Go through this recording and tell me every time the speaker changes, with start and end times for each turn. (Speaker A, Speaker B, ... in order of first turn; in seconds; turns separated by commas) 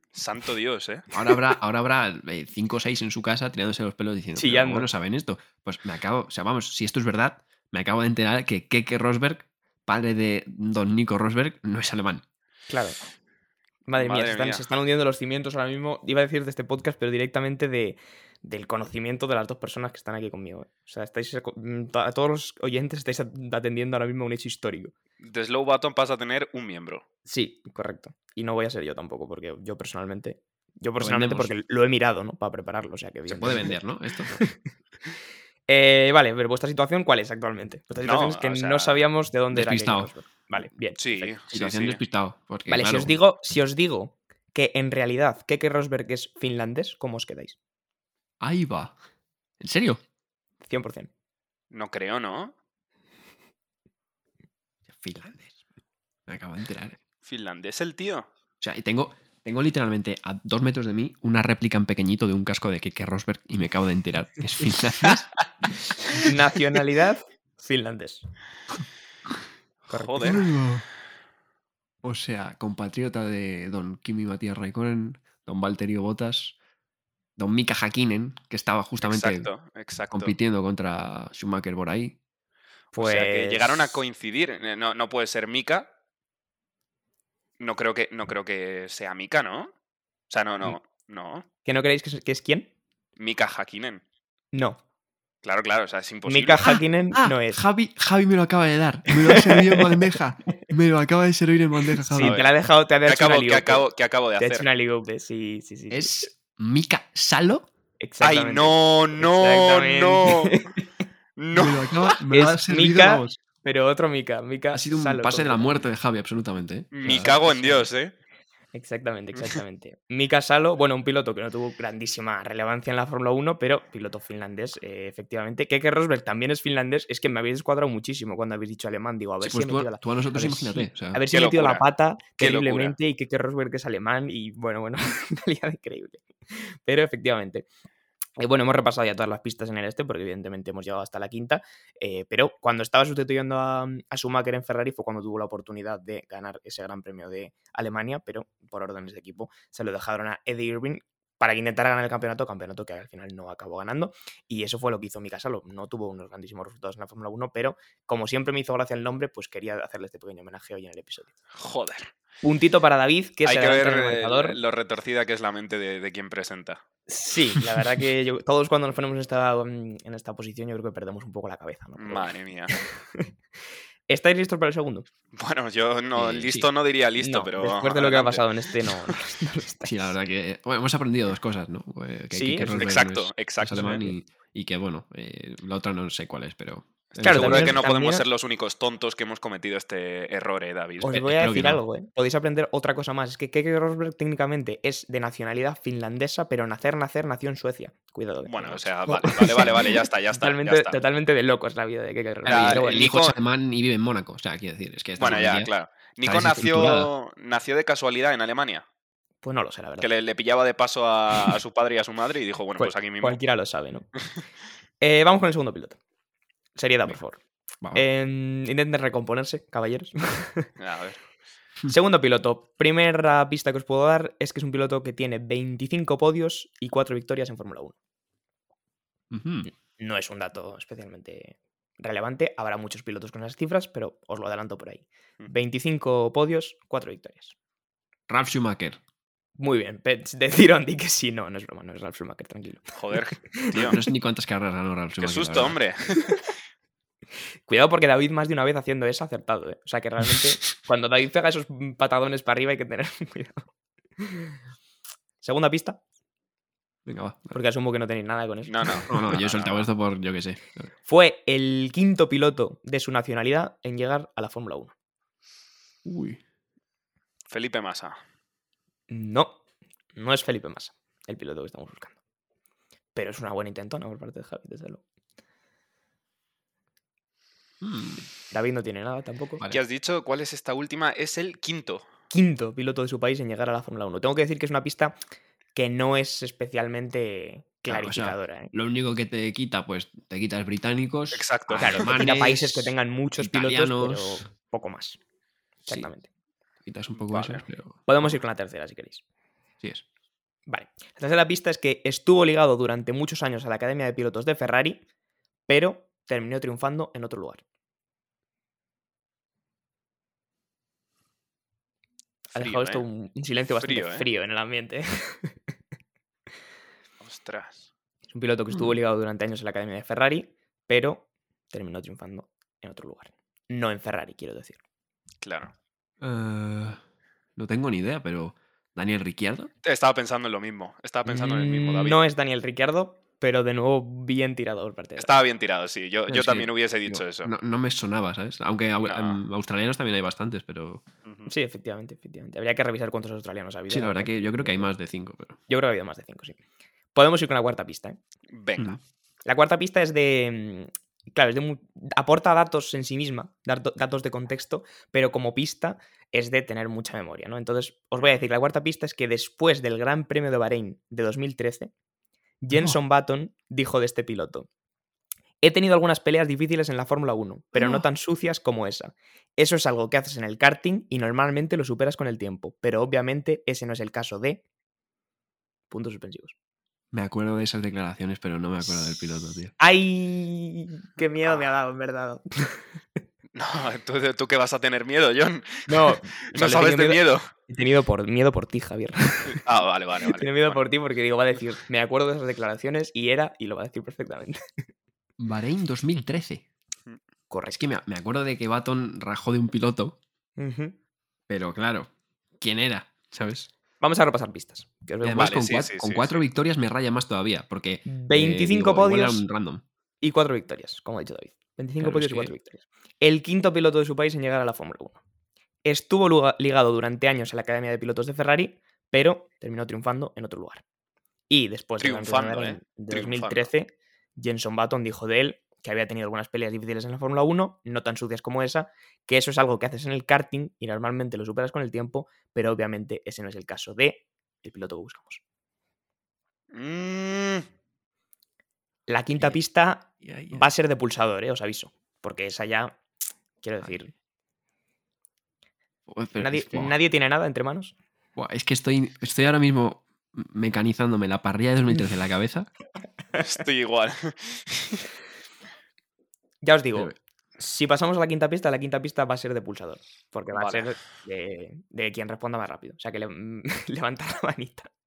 Speaker A: 0.1-1.0, Speaker B: 1.1-12.2, Speaker C: 4.4-4.9, Speaker C: 12.7-13.0, Speaker C: 13.9-24.9, Speaker A: 14.0-14.6, Speaker A: 25.2-27.0, Speaker C: 27.2-33.8, Speaker B: 31.0-31.5, Speaker B: 33.3-34.4, Speaker C: 34.3-34.6, Speaker C: 35.7-41.3, Speaker A: 38.0-39.0, Speaker B: 39.5-40.1, Speaker A: 41.0-42.0, Speaker B: 41.5-43.1, Speaker C: 42.7-47.6, Speaker B: 48.4-49.0, Speaker B: 49.6-50.0, Speaker C: 50.6-51.1, Speaker A: 51.7-52.5, Speaker B: 54.9-55.6, Speaker B: 56.3-57.0, Speaker A: 57.2-58.3, Speaker B: 58.6-65.3, Speaker C: 66.1-68.2, Speaker A: 69.9-70.5, Speaker C: 69.9-70.4, Speaker B: 70.2-70.9, Speaker B: 72.0-76.5, Speaker B: 77.4-79.5, Speaker A: 79.0-80.3, Speaker B: 80.1-82.2, Speaker C: 82.9-84.0, Speaker A: 82.9-85.9, Speaker A: 87.6-89.7, Speaker A: 90.3-91.5, Speaker C: 91.6-92.7, Speaker A: 93.2-94.0, Speaker C: 94.5-94.8, Speaker A: 95.4-96.8, Speaker C: 96.2-97.6, Speaker B: 97.1-102.4, Speaker C: 99.3-99.8, Speaker C: 102.0-103.9, Speaker A: 102.2-102.5, Speaker A: 103.0-104.7, Speaker C: 104.4-106.3, Speaker B: 105.9-107.7, Speaker C: 108.0-110.9, Speaker A: 108.2-110.6, Speaker A: 111.4-112.1, Speaker B: 111.5-113.4, Speaker C: 112.3-115.8, Speaker B: 114.7-117.3, Speaker A: 116.9-118.1, Speaker C: 117.0-117.9, Speaker C: 118.7-137.7, Speaker B: 129.4-131.2, Speaker A: 131.3-131.8, Speaker A: 132.4-133.0, Speaker C: 138.4-161.3, Speaker A: 161.6-162.1, Speaker C: 162.4-164.6, Speaker A: 163.4-166.8, Speaker C: 167.1-173.3, Speaker A: 172.0-172.8, Speaker C: 174.1-175.1, Speaker A: 175.3-179.1, Speaker B: 176.2-176.7, Speaker C: 177.2-180.1, Speaker B: 179.8-187.8, Speaker C: 182.3-182.9, Speaker A: 182.7-184.1, Speaker A: 187.1-191.2, Speaker C: 187.2-188.2, Speaker C: 191.0-203.1, Speaker B: 191.1-191.8, Speaker A: 198.5-201.0, Speaker A: 202.4-203.3, Speaker B: 202.5-205.7, Speaker A: 205.2-208.8, Speaker B: 206.2-207.1, Speaker C: 209.4-210.1, Speaker A: 210.0-213.4, Speaker C: 212.8-214.1, Speaker C: 215.0-216.0, Speaker C: 216.8-217.4, Speaker C: 217.9-220.7, Speaker A: 220.8-221.2, Speaker C: 221.9-228.0, Speaker B: 229.3-229.7, Speaker C: 230.0-237.5, Speaker B: 238.3-239.0, Speaker C: 239.6-243.9, Speaker A: 242.9-244.0, Speaker B: 243.7-245.8, Speaker A: 245.2-246.5, Speaker C: 247.7-253.7, Speaker C: 254.2-254.5, Speaker C: 255.4-256.0, Speaker B: 257.1-257.6, Speaker C: 257.5-259.1, Speaker A: 258.7-259.9, Speaker B: 259.1-260.9, Speaker C: 261.1-264.9, Speaker B: 266.0-266.4, Speaker A: 267.5-268.2, Speaker C: 269.1-269.6, Speaker C: 270.1-272.2, Speaker C: 273.1-275.0, Speaker B: 277.8-278.2, Speaker C: 278.5-279.6, Speaker A: 279.7-282.0, Speaker C: 282.3-285.2, Speaker C: 285.8-288.7, Speaker B: 287.9-294.5, Speaker A: 291.3-292.1, Speaker C: 291.8-295.2, Speaker C: 295.9-296.3, Speaker B: 296.9-298.3, Speaker A: 297.2-297.6, Speaker C: 298.1-299.2, Speaker C: 300.7-305.0, Speaker C: 305.7-307.6, Speaker A: 312.5-313.0, Speaker C: 312.5-315.5, Speaker A: 313.8-314.3, Speaker A: 317.2-317.9, Speaker C: 318.3-324.8, Speaker A: 325.4-325.7, Speaker B: 326.2-327.0, Speaker B: 327.6-329.7, Speaker A: 329.8-332.2, Speaker C: 331.3-335.4, Speaker A: 335.2-337.5, Speaker B: 336.3-341.0, Speaker A: 339.0-339.4, Speaker A: 341.2-341.5, Speaker C: 341.5-344.9, Speaker B: 343.9-345.6, Speaker C: 345.7-346.6, Speaker C: 347.1-348.2, Speaker A: 348.5-349.0, Speaker C: 349.4-361.9, Speaker C: 362.6-364.7, Speaker C: 365.6-374.6, Speaker B: 367.8-368.0, Speaker C: 375.9-376.5, Speaker B: 377.1-379.7, Speaker C: 379.8-382.8, Speaker A: 383.5-387.5, Speaker C: 385.9-389.6, Speaker A: 389.5-390.8, Speaker C: 390.3-394.6, Speaker B: 395.4-396.6, Speaker C: 397.5-397.8, Speaker B: 397.7-400.2, Speaker C: 400.6-401.0, Speaker B: 401.5-403.7, Speaker C: 404.0-405.6, Speaker B: 405.2-409.8, Speaker A: 405.3-406.4, Speaker C: 408.1-409.4, Speaker C: 410.2-415.2, Speaker B: 412.0-412.5, Speaker C: 415.9-420.8, Speaker C: 421.5-435.4, Speaker A: 422.0-423.7, Speaker A: 436.7-437.6, Speaker C: 439.1-443.0, Speaker B: 440.2-440.7, Speaker C: 443.6-444.1, Speaker B: 446.1-446.9, Speaker C: 446.4-447.9, Speaker B: 448.4-452.7, Speaker A: 453.4-455.1, Speaker C: 456.6-464.9, Speaker A: 460.5-460.9